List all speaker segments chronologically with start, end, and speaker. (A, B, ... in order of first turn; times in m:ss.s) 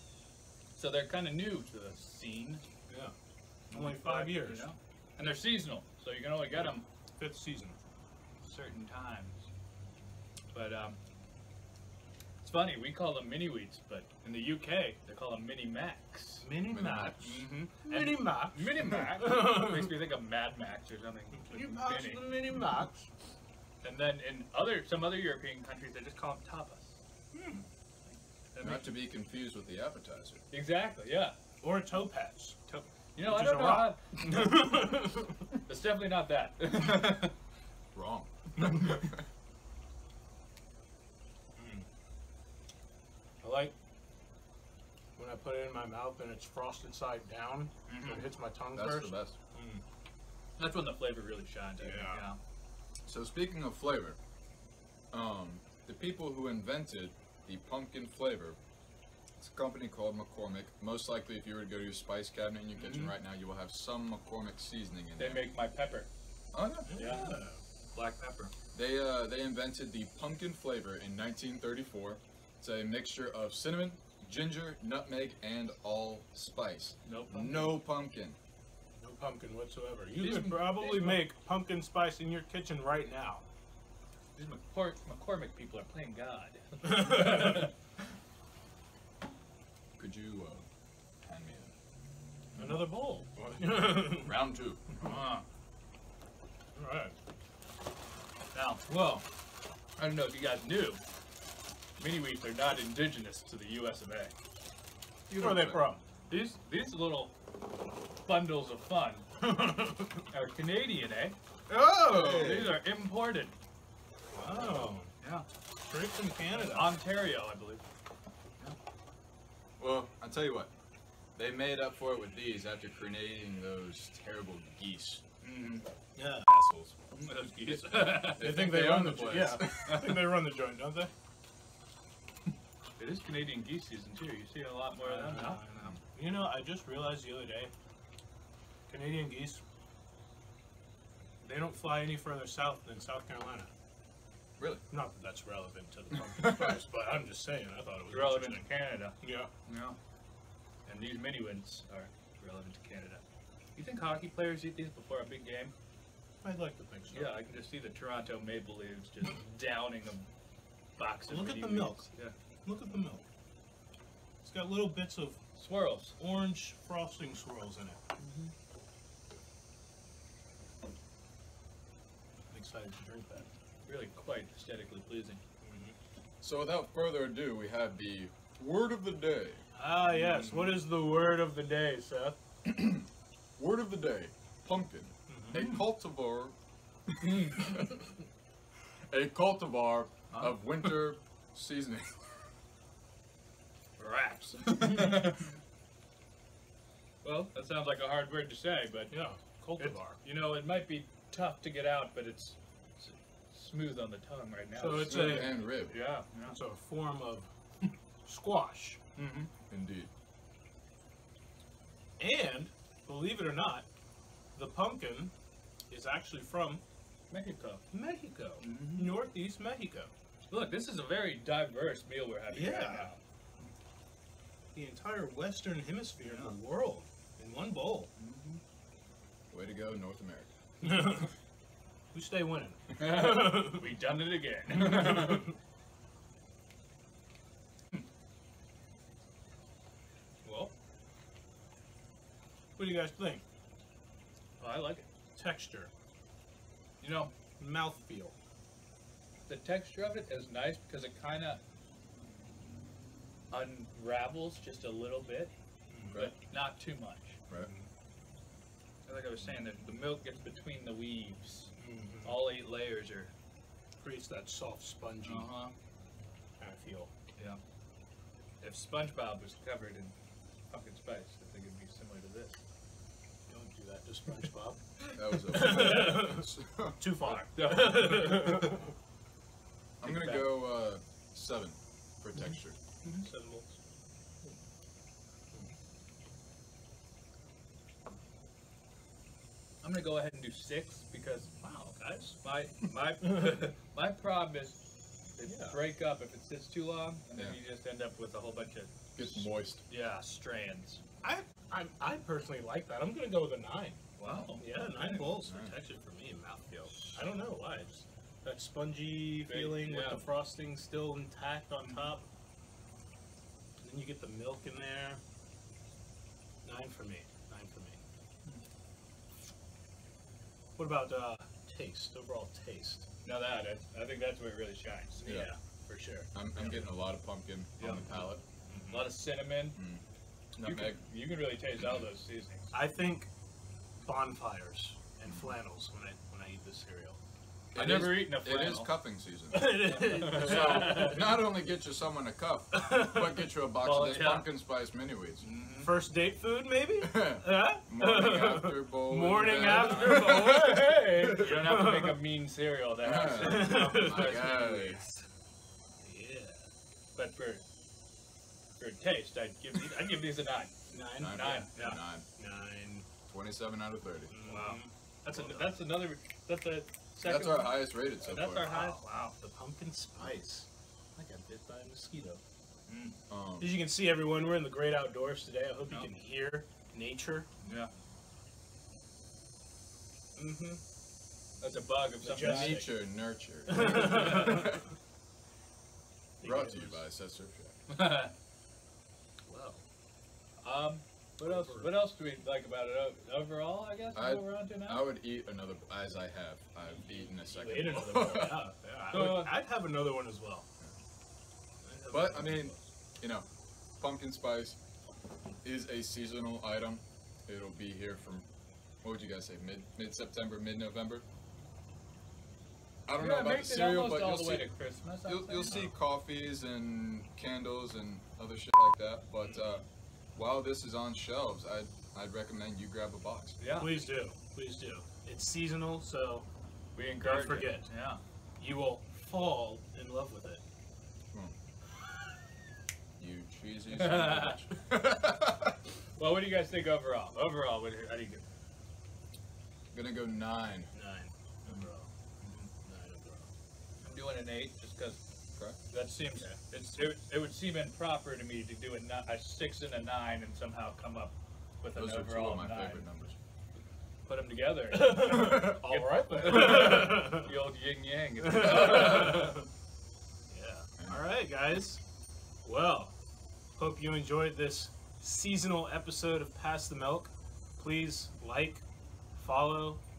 0:00.8-0:02.6 A
0:02.9-0:03.1 B
0:03.7-0:06.8 A
0:03.7-0:04.7 B
0:06.6-0:07.8 B
0:08.4-0:09.5 A
0:10.5-0:11.0 A
0:12.4-0:16.5 A
0:16.4-0:19.9 B
0:16.7-0:17.5 C
0:17.2-0:22.3 A
0:21.4-0:23.1 B
0:23.8-0:27.0 A
0:27.3-0:27.6 B
0:28.1-0:28.9 A
0:28.6-0:30.4 C
0:30.5-0:31.4 A
0:31.6-0:35.4 B
0:33.2-0:34.8 A
0:35.7-0:37.3 A
0:37.9-0:39.3 C
0:41.6-0:41.9 B
0:43.4-0:43.7 B
0:45.2-0:49.8 B
0:47.9-0:48.3 A
0:48.8-0:49.4 C
0:50.6-0:52.4 A
0:51.8-0:52.3 B
0:53.1-0:54.2 C
0:55.1-0:58.6 C
0:59.4-1:05.5 C
1:02.7-1:03.2 A
1:05.2-1:06.1 A
1:06.5-1:07.3 C
1:06.9-1:07.6 B
1:07.0-1:08.5 A
1:08.7-1:18.4 C
1:17.0-1:17.8 A
1:19.0-1:23.4 B
1:20.2-1:21.3 A
1:24.4-1:27.7 A
1:26.8-1:27.6 B
1:30.0-1:30.7 C
1:31.2-1:31.7 C
1:32.6-1:34.3 B
1:33.4-1:35.4 C
1:35.0-1:35.4 A
1:36.8-1:37.2 B
1:38.5-1:39.2 A
1:40.0-1:41.0 A
1:42.0-1:44.3 A
1:45.3-1:45.9 C
1:45.4-1:46.0 B
1:46.3-1:47.3 A
1:48.2-1:51.4 A
1:51.7-1:52.8 C
1:52.1-1:53.5 A
1:54.3-1:55.1 B
1:54.7-1:55.5 A
1:55.9-1:57.0 B
1:56.5-1:57.8 A
1:59.8-2:00.7 C
2:01.4-2:05.2 C
2:05.4-2:05.9 A
2:06.2-2:06.7 B
2:06.5-2:07.0 C
2:07.1-2:08.6 A
2:08.0-2:10.2 C
2:08.2-2:11.1 B
2:09.6-2:10.3 A
2:13.0-2:16.0 A
2:15.0-2:17.7 B
2:18.9-2:19.6 B
2:21.4-2:23.7 B
2:24.6-2:24.8 C
2:24.9-2:29.5 B
2:28.1-2:30.0 A
2:30.9-2:33.2 A
2:33.8-2:35.7 A
2:36.4-2:37.4 B
2:37.1-2:40.3 A
2:41.0-2:42.3 A
2:41.3-2:42.1 B
2:42.6-2:43.2 B
2:44.4-2:45.4 B
2:45.6-2:46.2 A
2:46.2-2:48.0 B
2:48.2-2:48.5 A
2:52.5-2:53.5 B
2:53.9-2:55.4 A
2:55.6-2:56.0 B
2:56.4-2:59.6 C
2:59.8-3:02.4 B
3:00.1-3:00.7 A
3:02.6-3:03.1 C
3:03.6-3:06.6 C
3:05.3-3:05.6 B
3:05.5-3:05.8 A
3:07.2-3:08.1 C
3:07.3-3:07.6 A
3:09.1-3:12.3 C
3:10.3-3:10.6 A
3:14.0-3:15.5 A
3:17.2-3:19.1 A
3:19.1-3:20.2 B
3:19.8-3:26.6 A
3:24.8-3:25.7 B
3:24.8-3:26.0 C
3:26.4-3:27.5 B
3:28.2-3:29.0 B
3:29.2-3:29.5 A
3:29.7-3:30.1 C
3:32.2-3:33.9 B
3:34.6-3:35.3 B
3:35.9-3:36.8 B
3:37.3-3:37.8 A
3:37.9-3:40.1 B
3:38.6-3:39.2 A
3:40.5-3:43.7 A
3:42.5-3:43.1 B
3:44.7-3:48.1 B
3:46.2-3:46.5 A
3:48.2-3:48.6 A
3:49.5-3:50.6 C
3:50.8-3:51.3 B
3:52.1-3:53.9 B
3:53.0-3:55.5 A
4:00.4-4:00.7 A
4:02.8-4:03.4 B
4:04.6-4:05.1 A
4:05.3-4:05.9 B
4:07.0-4:07.3 A
4:07.6-4:08.4 B
4:09.5-4:11.6 A
4:13.5-4:15.5 A
4:15.9-4:16.2 B
4:16.1-4:17.4 A
4:17.6-4:17.9 B
4:19.1-4:23.3 A
4:21.8-4:22.4 B
4:24.0-4:25.6 B
4:25.2-4:25.7 A
4:26.6-4:27.1 B
4:28.6-4:30.2 A
4:30.7-4:32.6 A
4:33.5-4:38.9 B
4:35.2-4:37.0 C
4:35.6-4:36.2 A
4:37.3-4:38.8 A
4:40.0-4:42.8 C
4:40.0-4:40.5 A
4:43.1-4:43.8 B
4:49.8-4:54.8 A
4:51.7-4:52.4 B
4:55.4-5:01.0 A
4:55.4-4:55.8 B
4:59.2-4:59.8 C
5:01.2-5:04.0 B
5:04.2-5:05.4 A
5:04.6-5:12.3 B
5:05.4-5:05.8 C
5:06.9-5:07.3 A
5:09.5-5:10.2 A
5:11.8-5:12.1 A
5:13.8-5:15.2 B
5:16.6-5:18.0 B
5:20.8-5:23.1 B
5:23.2-5:25.4 A
5:25.2-5:26.3 B
5:25.2-5:25.5 C
5:26.3-5:28.4 C
5:26.6-5:26.8 A
5:27.8-5:28.0 A
5:28.7-5:29.1 B
5:28.9-5:29.8 A
5:29.8-5:30.0 C
5:30.6-5:31.0 C
5:30.6-5:32.7 A
5:32.7-5:33.3 B
5:34.0-5:37.2 B
5:35.3-5:35.5 C
5:37.7-5:38.9 A
5:37.7-5:45.4 C
5:39.5-5:41.3 B
5:40.1-5:41.2 A
5:42.7-5:43.4 B
5:43.8-5:44.5 A
5:45.4-5:45.9 A
5:45.8-5:52.2 B
5:47.0-5:51.6 C
5:49.6-5:50.2 A
5:51.3-5:55.2 A
5:53.0-5:55.0 C
5:53.4-5:54.7 B
5:56.0-5:56.6 B
5:57.2-5:57.6 A
5:58.8-6:01.9 A
6:00.9-6:03.1 B
6:01.2-6:02.3 C
6:03.3-6:04.4 C
6:04.3-6:05.9 B
6:04.5-6:09.4 A
6:07.2-6:08.8 C
6:08.6-6:12.4 B
6:12.9-6:13.2 A
6:13.3-6:13.8 C
6:13.6-6:17.5 B
6:17.6-6:17.9 A
6:20.4-6:20.8 B
6:21.6-6:22.8 A
6:22.2-6:22.9 B
6:22.4-6:24.8 C
6:23.7-6:24.7 B
6:23.7-6:24.6 A
6:26.4-6:27.0 B
6:26.4-6:27.8 C
6:27.9-6:28.3 A
6:29.4-6:29.8 B
6:30.6-6:35.1 A
6:31.4-6:32.0 B
6:34.2-6:38.6 C
6:36.9-6:40.7 B
6:39.1-6:39.6 A
6:41.8-6:42.8 B
6:42.1-6:43.5 C
6:44.0-6:44.8 C
6:45.6-6:48.5 C
6:49.0-6:51.2 C
6:53.1-7:03.6 C
6:53.2-6:55.9 A
7:03.6-7:04.0 A
7:03.8-7:06.5 B
7:07.0-7:08.2 A
7:07.2-7:07.9 B
7:08.6-7:10.6 B
7:13.2-7:15.8 C
7:13.9-7:14.6 A
7:16.2-7:18.4 A
7:19.9-7:20.9 C
7:20.9-7:22.1 B
7:22.4-7:22.7 A
7:22.8-7:23.5 B
7:24.0-7:25.2 A
7:25.8-7:33.1 A
7:32.0-7:33.4 C
7:34.3-7:39.6 A
7:34.9-7:37.5 B
7:35.5-7:35.7 C
7:38.4-7:39.6 B
7:40.5-7:42.0 B
7:41.0-7:41.2 C
7:42.6-7:43.1 B
7:43.8-7:48.8 B
7:49.4-7:50.0 B